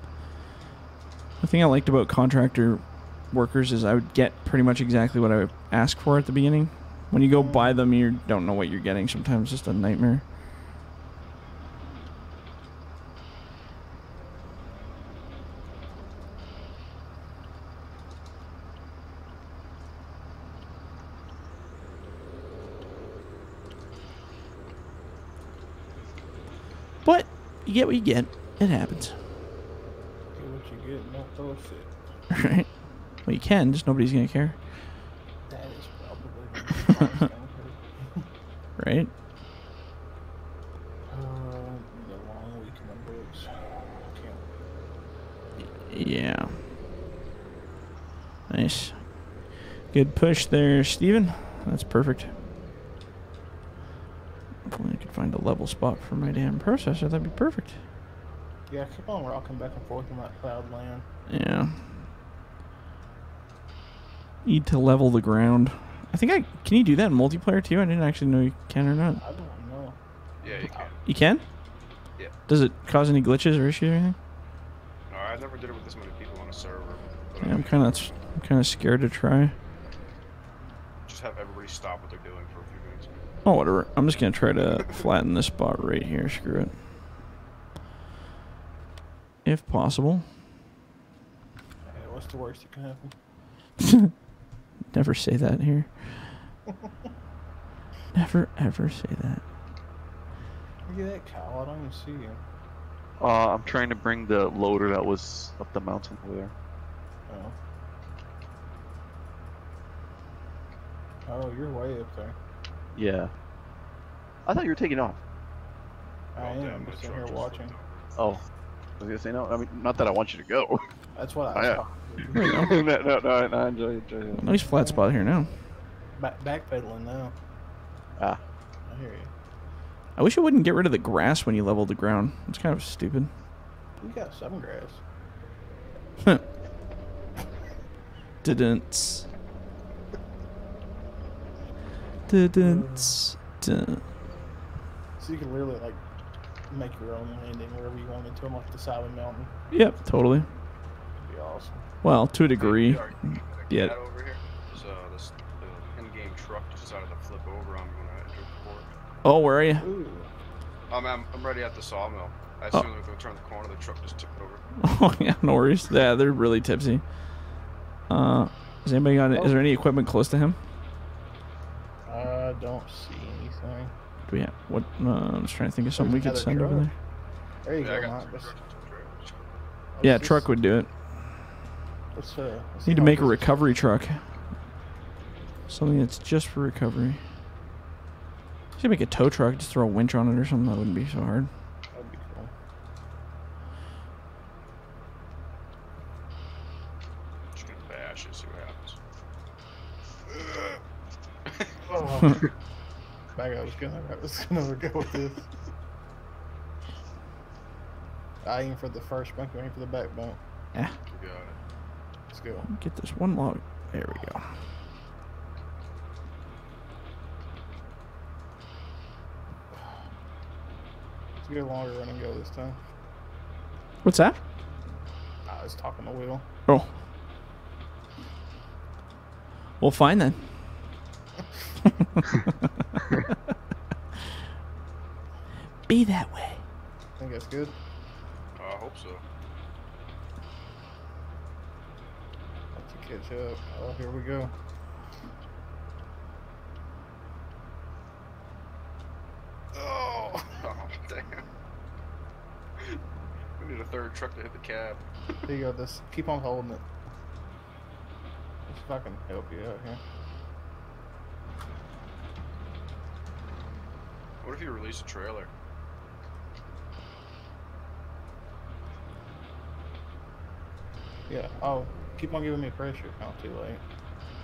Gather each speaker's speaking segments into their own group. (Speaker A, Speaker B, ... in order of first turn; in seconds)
Speaker A: 1.4-10.2, 27.0-29.2, 32.3-34.6, 38.8-39.1, 45.8-46.6, 48.5-52.3, 54.6-57.8, 61.3-62.0, 64.4-69.2, 70.6-71.4, 72.5-74.2, 77.4-79.5, 83.4-86.8, 89.4-90.2, 93.8-94.1, 94.9-96.4, 98.1-99.4, 122.3-122.7, 124.4-125.6, 130.2-133.3, 138.4-139.3, 142.3-144.0, 149.7-150.5, 152.0-153.2, 153.7-153.9, 159.2-159.8, 164.8-167.2, 168.1-170.6, 174.3-176.9, 180.0-180.9, 182.8-184.2, 185.7-187.2, 188.8-191.5, 212.7-214.5, 224.0-224.4, 229.8-230.9, 231.8-232.2, 235.9-236.6
Speaker B: 7.3-7.8, 30.3-31.9, 35.5-38.2, 41.1-44.4, 58.7-61.0, 69.2-70.9, 91.8-93.1, 100.9-102.4, 107.3-107.5, 111.2-112.3, 116.3-117.7, 121.1-122.7, 124.5-125.3, 126.2-127.3, 128.8-129.3, 134.0-135.0, 142.6-143.2, 145.2-146.0, 146.7-149.5, 151.2-151.8, 159.8-160.3, 172.1-173.9, 175.9-176.9, 177.6-178.5, 179.9-180.5, 182.1-183.6, 191.9-192.5, 201.8-202.5, 203.3-205.5, 208.4-210.4, 212.3-212.7, 221.4-222.8, 225.4-226.4, 237.2-237.7, 242.7-244.5, 255.4-256.8, 258.7-260.0, 271.3-273.8
Speaker C: 70.4-70.9, 75.1-78.1, 81.1-83.2, 116.3-118.1, 152.6-158.9, 160.9-164.6, 177.8-179.3, 197.5-199.0, 211.1-211.6, 238.6-239.2, 249.7-251.4, 253.6-255.0, 264.4-265.5
Speaker D: 103.2-106.5, 112.9-113.3, 114.4-115.2, 118.2-118.4, 119.0-120.8, 121.5-124.5